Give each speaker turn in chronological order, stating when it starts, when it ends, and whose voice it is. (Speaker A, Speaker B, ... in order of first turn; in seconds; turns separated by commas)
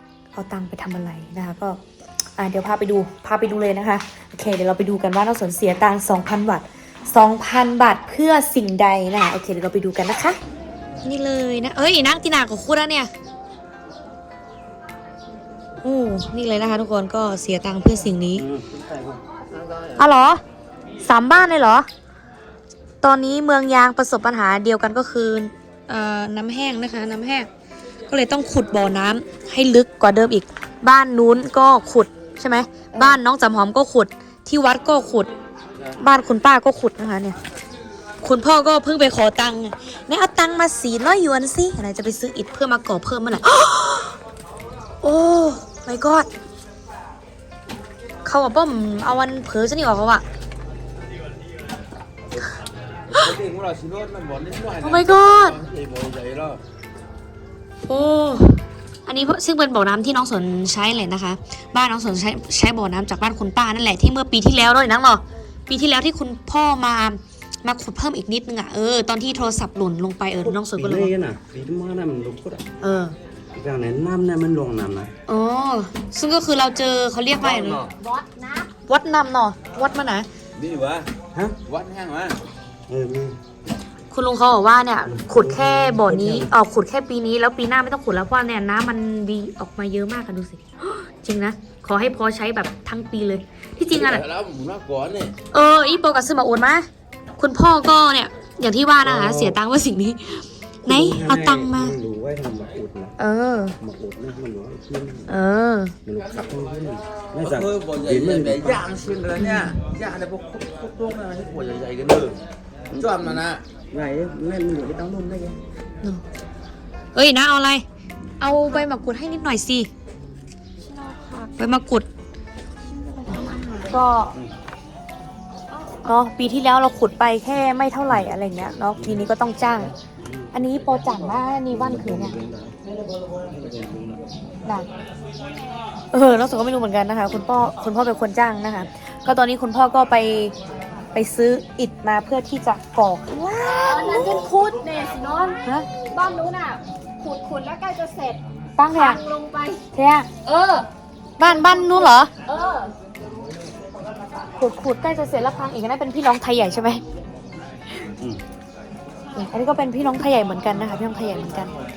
Speaker A: 0.3-1.8, Speaker A: 2.4-10.4, Speaker A: 11.0-13.1, Speaker A: 15.8-18.5, Speaker B: 18.3-19.2, Speaker A: 20.0-20.4, Speaker A: 21.0-21.9, Speaker A: 23.0-27.5, Speaker A: 28.1-35.3, Speaker A: 35.9-37.4, Speaker A: 38.2-44.1, Speaker A: 45.0-46.3, Speaker A: 48.2-50.2, Speaker C: 53.2-56.6, Speaker A: 54.8-55.6, Speaker A: 57.9-71.1, Speaker B: 70.7-72.7, Speaker A: 72.8-73.2, Speaker B: 73.5-75.1, Speaker A: 75.3-77.8, Speaker C: 77.5-77.8, Speaker D: 77.8-78.7, Speaker A: 78.9-80.3, Speaker C: 80.6-81.1, Speaker B: 81.3-81.6, Speaker C: 81.7-82.4, Speaker B: 82.9-83.4, Speaker A: 84.1-94.2, Speaker B: 85.0-86.5, Speaker C: 93.9-95.3, Speaker A: 95.5-102.0, Speaker B: 99.0-99.6, Speaker B: 100.8-103.2, Speaker A: 103.2-103.8, Speaker B: 103.8-105.3, Speaker A: 105.3-105.9, Speaker B: 106.0-108.9, Speaker C: 107.4-112.4, Speaker A: 109.4-109.7, Speaker B: 112.9-115.6, Speaker C: 113.0-113.6, Speaker A: 117.1-117.8, Speaker A: 118.4-119.9, Speaker D: 120.8-121.5, Speaker A: 121.6-122.1, Speaker D: 122.8-123.9, Speaker A: 123.3-124.3, Speaker A: 126.0-129.9, Speaker B: 129.0-129.2, Speaker B: 130.2-130.5, Speaker A: 130.5-132.4, Speaker B: 131.7-132.8, Speaker B: 133.5-134.2, Speaker D: 135.4-135.8, Speaker A: 136.1-140.5, Speaker A: 141.1-144.4, Speaker D: 143.8-148.4, Speaker A: 148.8-149.2, Speaker D: 148.9-149.8, Speaker A: 149.9-150.3, Speaker D: 150.4-150.9, Speaker A: 151.4-152.3, Speaker D: 151.4-152.9, Speaker A: 154.6-157.0, Speaker A: 159.3-161.7